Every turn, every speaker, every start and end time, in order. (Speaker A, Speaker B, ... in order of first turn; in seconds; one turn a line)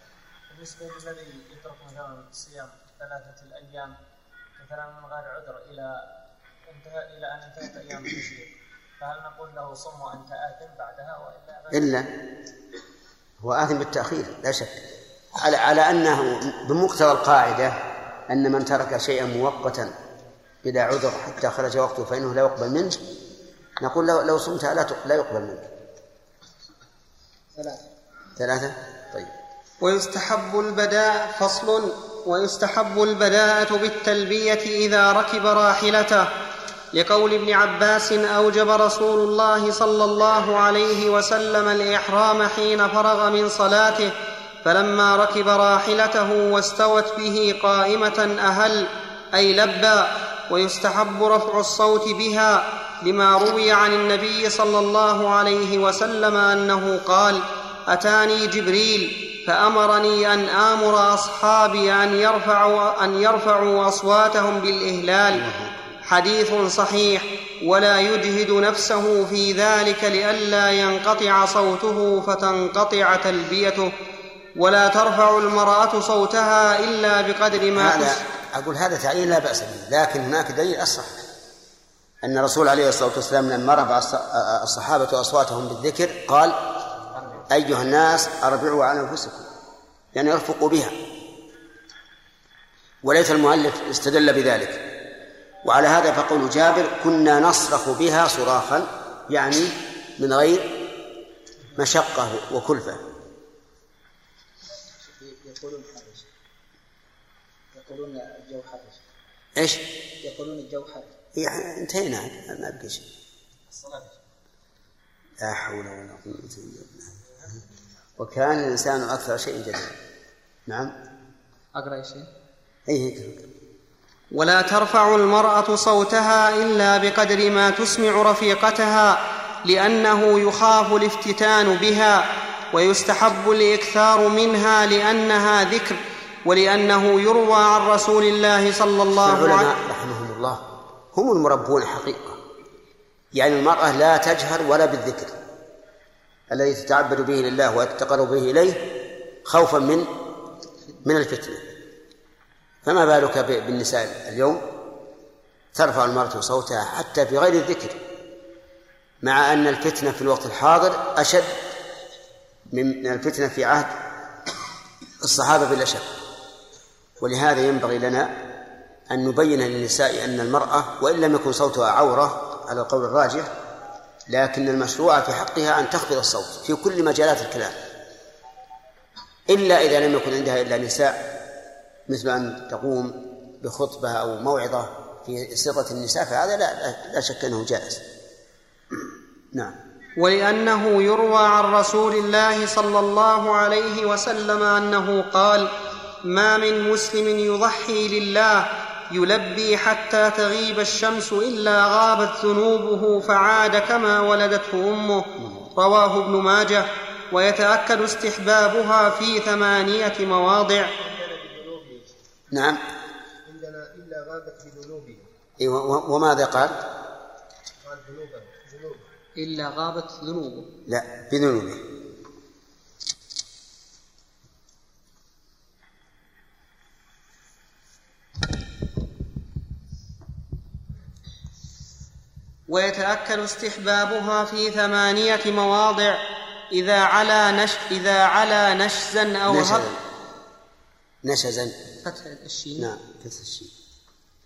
Speaker A: 0.5-4.0
Speaker A: 4.6-6.1
Speaker A: 6.7-11.9
Speaker B: 11.7-12.1
Speaker B: 13.4-19.9
Speaker B: 20.6-23.0
Speaker B: 23.8-25.7
Speaker C: 27.6-27.8
Speaker B: 28.4-29.3
Speaker D: 29.8-36.3
Speaker D: 36.9-44.1
Speaker D: 44.6-65.5
Speaker B: 65.4-65.8
Speaker D: 66.1-73.9
Speaker D: 74.6-78.2
Speaker B: 77.8-81.2
Speaker B: 82.2-86.7
Speaker B: 87.5-89.5
Speaker B: 90.1-91.0
Speaker B: 93.0-94.8
Speaker B: 95.6-100.8
Speaker B: 101.8-103.0
Speaker C: 105.0-106.3
Speaker C: 107.7-109.0
Speaker B: 109.6-109.8
Speaker C: 110.2-111.1
Speaker B: 111.3-113.1
Speaker A: 113.7-114.2
Speaker B: 115.4-117.1
Speaker B: 118.2-120.0
Speaker B: 120.7-120.9
Speaker D: 121.8-122.3
Speaker B: 122.9-123.4
Speaker D: 124.3-139.7
Speaker B: 139.2-140.6
Speaker B: 141.1-142.4
Speaker B: 143.3-145.4
Speaker B: 146.5-148.9
Speaker B: 149.4-150.1
Speaker B: 151.0-151.7
Speaker B: 152.8-154.6
Speaker B: 155.7-158.0
Speaker B: 159.2-161.5
Speaker B: 162.7-163.9
Speaker B: 165.2-166.1
Speaker B: 167.2-168.3
Speaker B: 169.1-173.5
Speaker B: 174.3-177.8
Speaker B: 179.5-181.3
Speaker B: 182.1-188.0
Speaker D: 190.2-195.7
Speaker D: 196.2-210.9
Speaker E: 211.0-212.1
Speaker B: 212.5-212.8
Speaker E: 213.4-215.3
Speaker B: 215.6-216.8
Speaker E: 217.8-219.1
Speaker D: 219.4-220.7
Speaker B: 220.9-221.8
Speaker D: 232.7-239.9
Speaker B: 239.5-240.0
Speaker B: 241.2-241.8
Speaker D: 242.1-242.9
Speaker B: 242.8-243.7